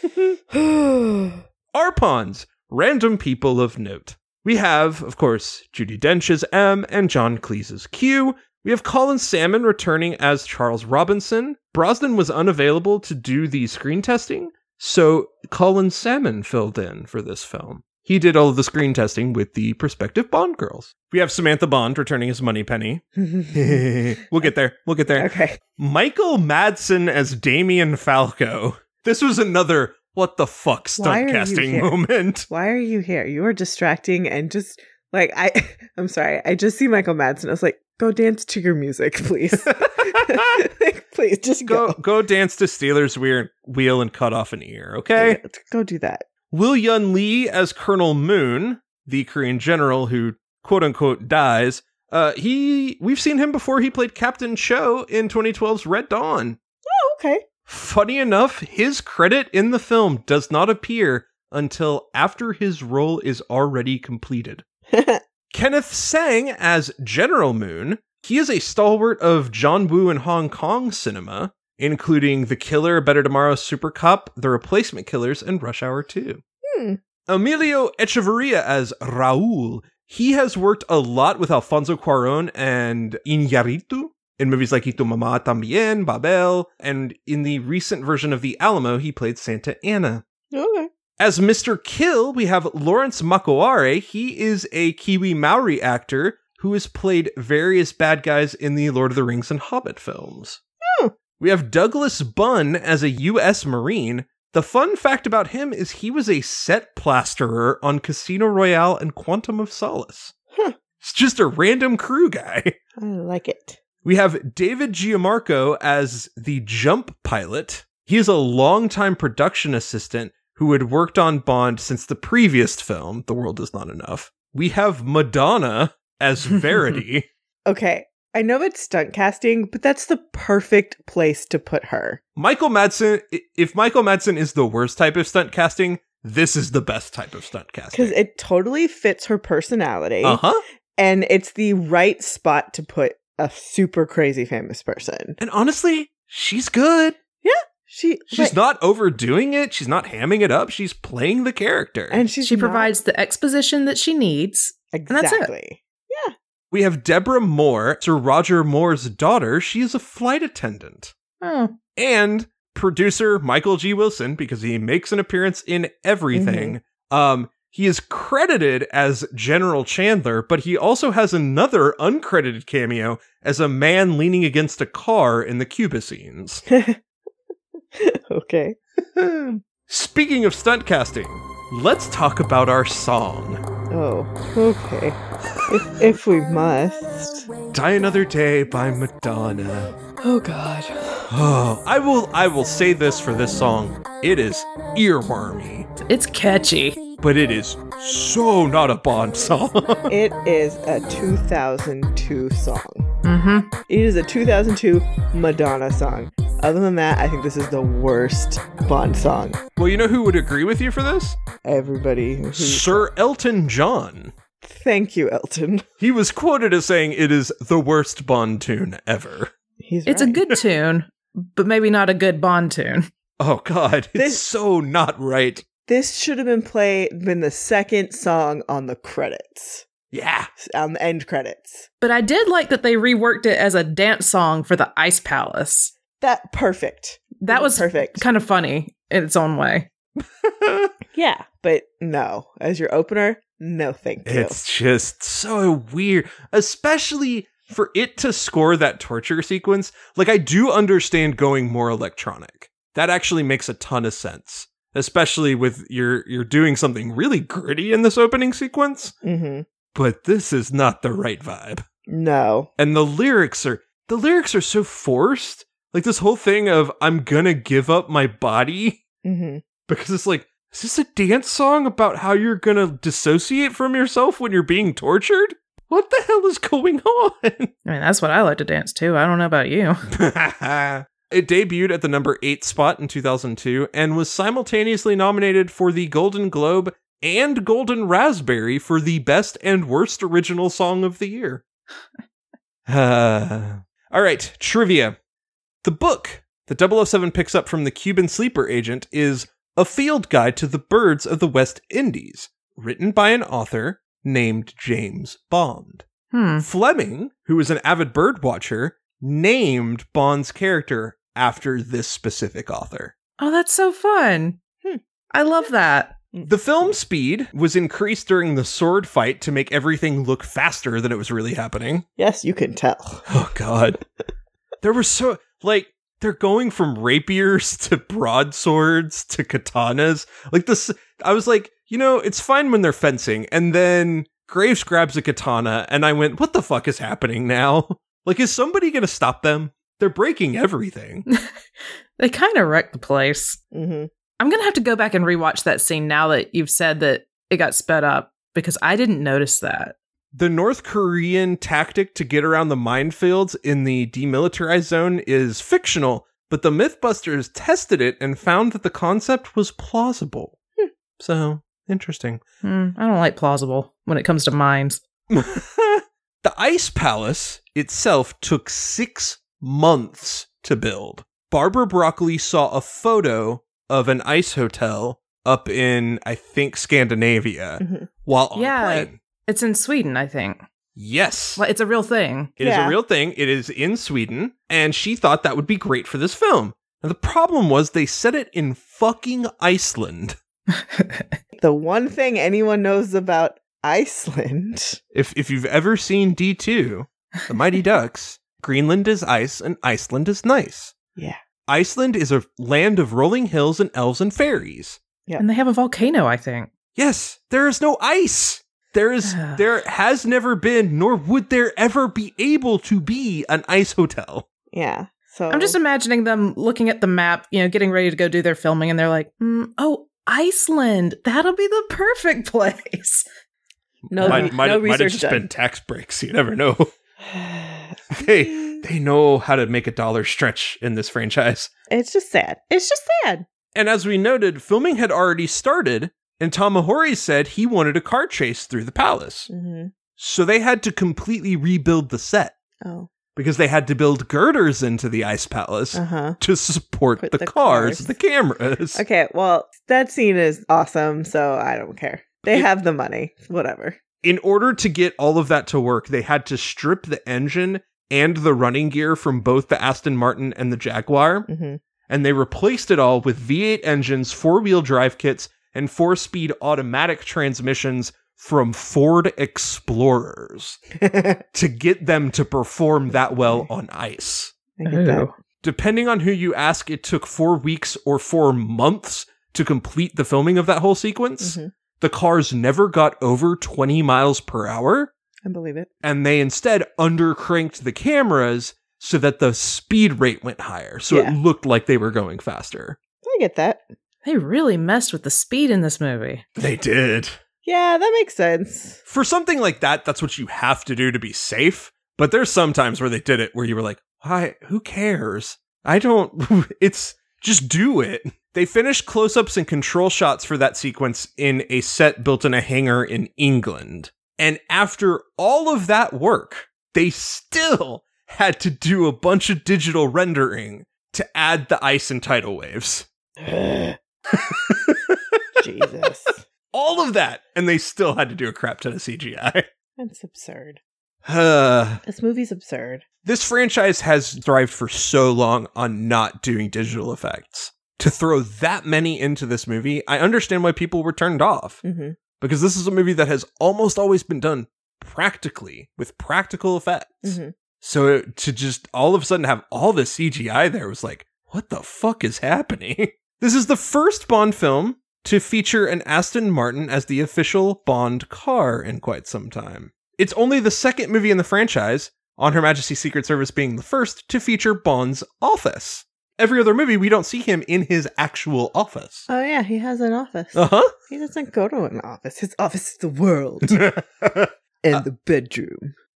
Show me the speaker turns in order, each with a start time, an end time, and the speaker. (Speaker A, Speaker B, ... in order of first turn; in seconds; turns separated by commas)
Speaker A: 0.5-1.4, Speaker B: 1.7-32.5, Speaker A: 23.2-23.9, Speaker A: 25.1-25.6, Speaker A: 31.0-31.9, Speaker A: 32.5-42.0, Speaker B: 39.7-40.6, Speaker B: 41.7-45.4, Speaker A: 45.2-46.3, Speaker B: 46.5-56.6, Speaker A: 56.9-57.5, Speaker B: 57.7-64.6, Speaker A: 64.9-65.2, Speaker B: 65.5-76.4, Speaker A: 76.6-77.0, Speaker B: 77.3-90.2, Speaker A: 90.5-90.9, Speaker B: 91.2-100.6, Speaker A: 100.8-101.2, Speaker B: 101.4-110.3, Speaker B: 111.0-112.8, Speaker A: 113.0-113.8, Speaker B: 114.0-127.3, Speaker A: 127.7-132.2, Speaker B: 132.4-138.2, Speaker A: 137.9-140.4, Speaker B: 140.2-140.6, Speaker A: 141.0-145.4, Speaker B: 145.4-147.2, Speaker A: 147.4-148.6, Speaker B: 148.3-152.2, Speaker A: 152.1-152.9, Speaker C: 152.4-155.5, Speaker A: 154.9-156.3, Speaker B: 156.7-161.1, Speaker C: 161.4-161.8, Speaker B: 162.0-176.7, Speaker A: 166.3-166.8, Speaker A: 176.7-177.0, Speaker A: 177.9-178.8, Speaker B: 179.2-183.6, Speaker A: 183.9-187.5, Speaker B: 187.7-190.0, Speaker A: 190.2-191.3, Speaker B: 191.3-195.9, Speaker C: 196.0-197.0, Speaker B: 197.2-200.2, Speaker A: 200.1-203.1, Speaker C: 203.2-203.7, Speaker A: 203.9-209.6, Speaker B: 209.8-211.4, Speaker A: 211.6-213.1, Speaker B: 212.6-214.3, Speaker A: 214.6-215.9, Speaker B: 216.0-219.5, Speaker A: 219.8-220.5, Speaker C: 220.1-223.1, Speaker B: 223.4-225.7, Speaker A: 224.2-224.4, Speaker A: 225.9-229.9, Speaker B: 230.1-230.5, Speaker A: 230.6-231.9, Speaker C: 232.0-235.9, Speaker A: 236.2-238.2, Speaker C: 237.4-239.9, Speaker B: 240.4-240.9, Speaker A: 241.1-244.6, Speaker B: 244.3-259.1, Speaker A: 259.2-259.7, Speaker B: 259.9-261.8, Speaker A: 262.1-262.7, Speaker B: 262.8-269.0, Speaker A: 269.2-269.6, Speaker B: 269.9-277.7, Speaker C: 277.9-280.0, Speaker B: 280.1-291.6, Speaker B: 292.9-295.2, Speaker B: 295.8-306.0, Speaker C: 306.3-306.7, Speaker B: 306.6-313.1, Speaker C: 313.4-314.6, Speaker C: 315.3-316.2, Speaker B: 316.4-322.1, Speaker A: 322.2-323.2, Speaker B: 323.3-324.0, Speaker B: 324.8-341.3, Speaker C: 342.2-343.6, Speaker A: 343.7-344.1, Speaker C: 344.4-349.9, Speaker B: 350.3-360.6, Speaker B: 361.2-362.4, Speaker C: 362.6-365.0, Speaker B: 365.3-379.2, Speaker A: 377.8-378.1, Speaker C: 378.6-380.6, Speaker B: 381.0-381.6, Speaker C: 381.6-382.5, Speaker B: 382.6-390.4, Speaker A: 382.6-383.0, Speaker C: 390.7-391.3, Speaker A: 391.6-395.0, Speaker B: 395.1-400.9, Speaker B: 401.7-405.0, Speaker C: 405.4-406.7, Speaker B: 407.0-414.4, Speaker C: 409.3-409.6, Speaker A: 414.7-415.8, Speaker C: 415.5-423.3, Speaker B: 424.1-426.9, Speaker A: 424.1-425.5, Speaker C: 424.2-424.5, Speaker A: 427.2-428.8, Speaker B: 428.1-431.7, Speaker A: 431.9-433.5, Speaker B: 433.7-439.5, Speaker A: 439.5-439.9, Speaker B: 440.2-442.5, Speaker A: 442.8-443.1, Speaker B: 443.3-449.0, Speaker A: 445.9-446.4, Speaker A: 447.2-448.2, Speaker A: 448.9-454.0, Speaker B: 454.2-461.5, Speaker A: 461.5-461.8, Speaker B: 462.1-470.8, Speaker A: 471.1-471.4, Speaker B: 471.5-474.5, Speaker A: 474.8-475.3, Speaker C: 474.9-475.3, Speaker B: 475.6-485.1, Speaker A: 481.4-481.7, Speaker A: 485.4-485.9, Speaker B: 486.0-493.0, Speaker A: 491.1-491.4, Speaker A: 493.2-493.9, Speaker C: 494.2-496.4, Speaker B: 496.6-497.4, Speaker A: 497.6-499.0, Speaker B: 499.1-523.1, Speaker A: 523.4-524.5, Speaker B: 524.4-525.6, Speaker A: 525.6-526.4, Speaker B: 526.7-529.7, Speaker A: 530.0-530.8, Speaker B: 531.2-532.0, Speaker A: 532.0-533.0, Speaker B: 533.2-541.8, Speaker A: 541.8-542.2, Speaker B: 542.4-569.3, Speaker A: 547.2-547.5, Speaker A: 569.3-573.9, Speaker B: 570.5-570.9, Speaker B: 573.7-575.0, Speaker A: 574.8-575.9